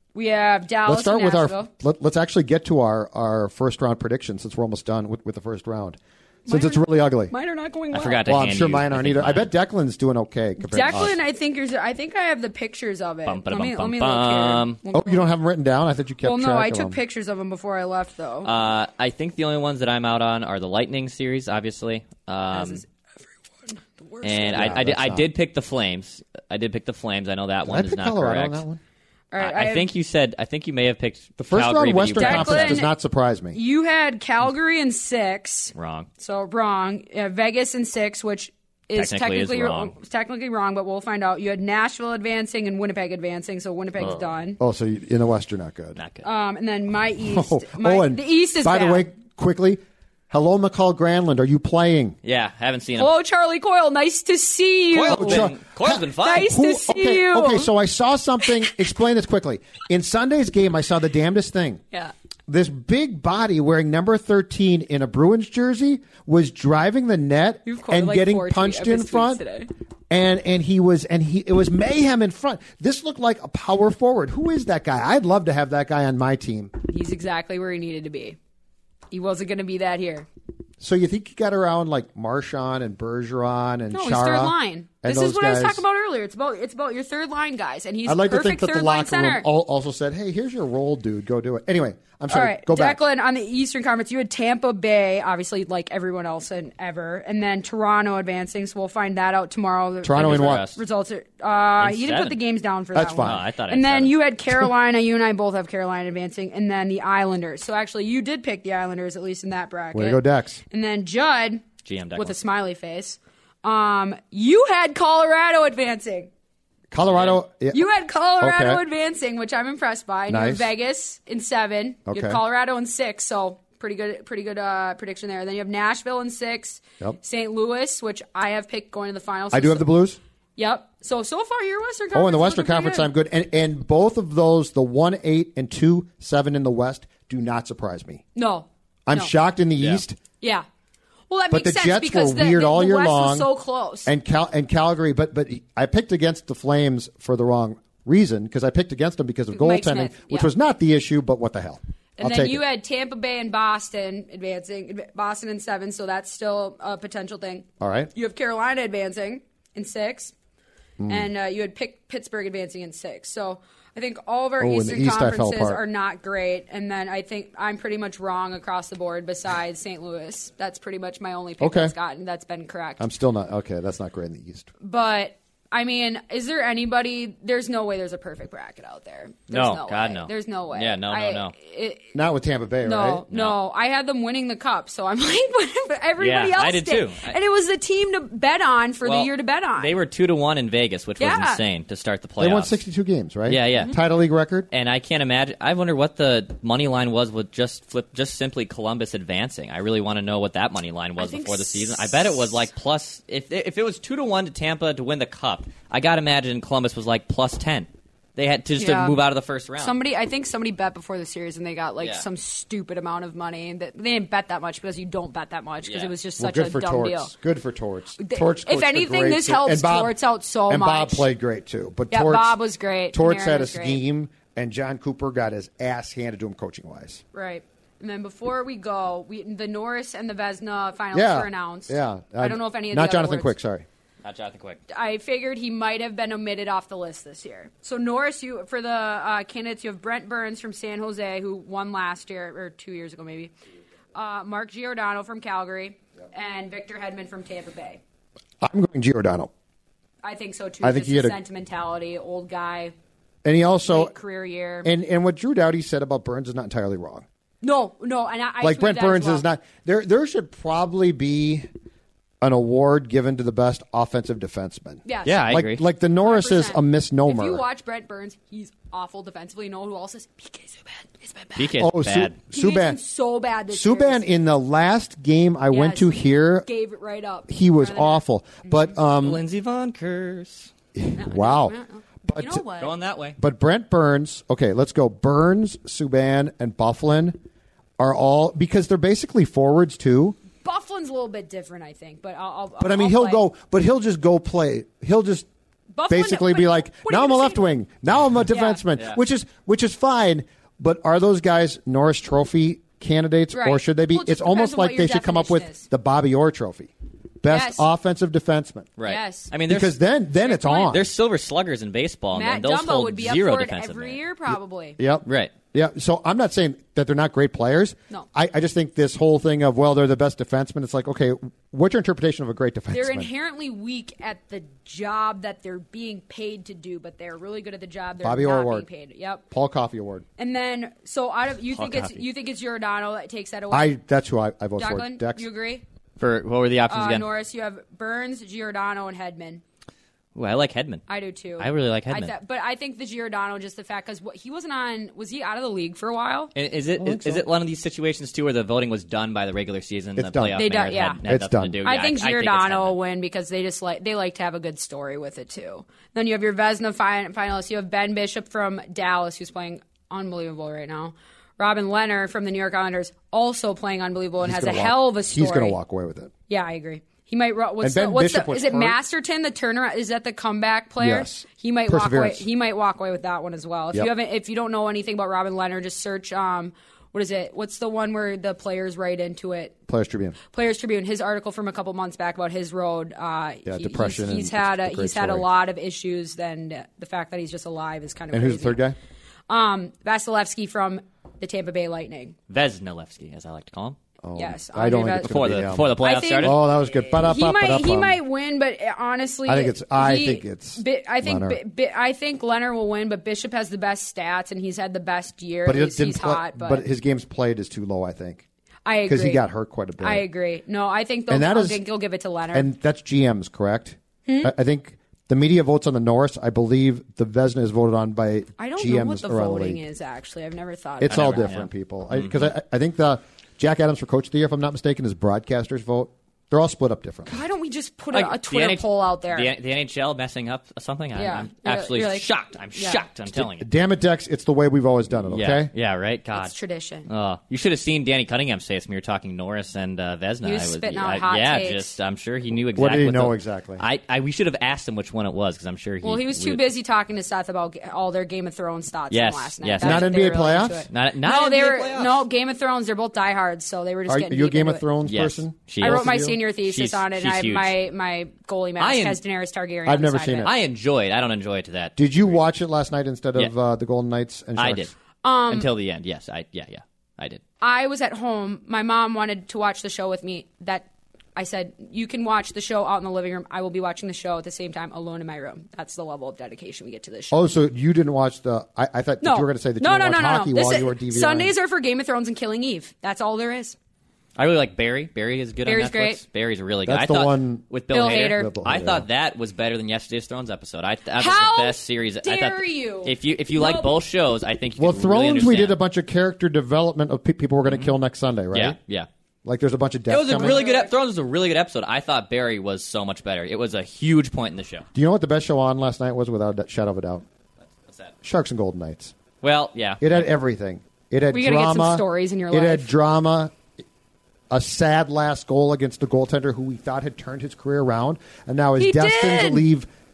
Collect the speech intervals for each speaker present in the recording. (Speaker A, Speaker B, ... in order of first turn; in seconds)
Speaker A: 0.1-1.7, 6.5-8.2, 10.6-15.2, 16.2-18.5, 22.5-22.9, 23.6-24.8, 29.3-29.9, 32.1-32.9, 33.5-44.6, 46.2-49.1, 53.0-55.5, 56.1-57.7, 67.7-69.7, 76.9-78.4, 79.1-80.3, 83.9-89.5, 92.3-116.3, 117.7-129.9, 130.6-133.1, 138.3-139.3, 141.3-144.1, 149.5-150.5, 152.2-160.3, 161.1-173.0, 174.8-182.0, 182.8-190.0, 191.2-191.6, 201.2-202.5, 208.8-209.2, 209.8-217.3, 218.2-221.3, 222.1-224.0, 227.3-233.5, 234.9-243.5, 244.1-248.0, 250.2-252.9, 253.9-254.9, 257.6-259.4, 265.0-265.5, 266.2-271.7, 272.5-274.3, 275.7-276.1, 276.6-278.9, 281.2-282.9, 290.6-293.4, 295.9-297.6, 298.5-298.8, 303.5-305.8, 307.5-307.9, 309.0-309.5, 310.4-310.9, 312.3-315.0, 322.9-329.4, 330.4-333.9, 334.8-335.8, 336.9-339.6, 341.1-346.5, 350.6-351.2, 351.8-365.8, 366.5-379.7, 380.5-388.8, 389.5-392.3, 394.4-406.8, 408.9-409.4, 410.0-412.7, 414.2-414.5, 418.6-421.5, 427.3-429.5, 431.1-433.0, 436.3-437.1, 440.4-442.0, 446.0-454.9, 455.8-460.5, 465.2-465.7, 467.6-477.4, 479.2-483.8, 485.6-486.2, 487.9-488.5, 491.2-494.0, 500.3-500.9, 511.3-512.9, 518.8-519.6
Speaker B: 0.8-7.3, 8.2-11.1, 14.9-17.0, 24.5-25.3, 27.6-28.8, 31.4-33.6, 44.6-46.0, 47.2-52.2, 55.0-61.8, 62.5-69.4, 70.1-76.7, 80.8-85.8, 88.1-93.0, 100.0-100.6, 102.9-103.4, 109.9-110.6, 116.9-117.8, 118.4-118.8, 120.3-120.7, 122.1-122.4, 129.5-130.2, 132.1-138.2, 139.1-140.2, 141.5-143.5, 144.1-152.6, 157.8-158.1, 161.0-161.3, 164.6-165.8, 171.6-171.9, 173.0-174.7, 182.1-183.2, 192.4-194.7, 216.4-220.2, 220.7-222.6, 223.1-227.2, 231.1-233.8, 248.6-249.5, 250.8-251.4, 253.4-254.1, 254.8-257.2, 258.6-261.7, 262.4-267.6, 271.8-273.0, 273.7-276.7, 277.5-279.4, 280.9-281.8, 282.3-282.6, 283.4-287.4, 288.0-290.4, 292.8-295.5, 296.1-306.9, 307.4-308.9, 309.6-311.1, 315.0-323.3, 328.2-328.9, 329.5-330.2, 333.7-335.4, 347.0-347.4, 350.2-350.6, 351.2-351.8, 364.4-366.3, 367.8-369.0, 371.0-372.4, 379.9-380.4, 383.6-385.5, 388.3-389.0, 394.2-398.2, 399.5-401.6, 405.6-408.4, 409.1-410.2, 411.3-411.8, 412.5-419.8, 421.0-427.4, 433.3-435.7, 442.7-443.8, 449.8-450.9, 454.1-456.4, 459.9-460.5, 462.0-464.9, 477.3-481.5, 486.9-489.1, 494.8-498.8, 499.4-500.6, 504.9-507.2, 508.2-509.1, 510.0-513.6, 514.5-519.9
Speaker C: 7.9-9.5, 13.2-14.8, 18.4-22.8, 24.2-28.6, 29.4-32.8, 35.7-36.1, 38.9-39.9, 46.0-46.2, 52.2-53.1, 54.9-56.5, 100.1-100.8, 101.8-102.3, 103.2-104.1, 111.8-112.3, 179.5-181.5, 183.3-183.6, 186.2-187.3, 189.0-192.8, 193.5-194.0, 194.7-209.9, 215.8-216.1, 234.2-234.8, 265.2-265.8, 271.6-272.4, 279.2-280.7, 282.8-283.4, 309.0-309.9, 310.9-314.2, 315.2-315.5, 331.7-332.2, 336.2-337.2, 340.3-341.0, 341.6-342.3, 346.5-352.9, 392.5-394.0, 395.2-396.6, 421.1-422.5, 428.1-433.7, 435.3-436.5, 437.1-446.6, 449.1-450.2, 450.9-452.2, 455.0-457.8, 458.8-459.2, 460.4-462.4, 464.6-464.9, 465.5-467.4, 484.4-495.8, 497.6-497.9, 498.5-499.1, 500.1-504.8, 507.7-508.1, 509.4-510.1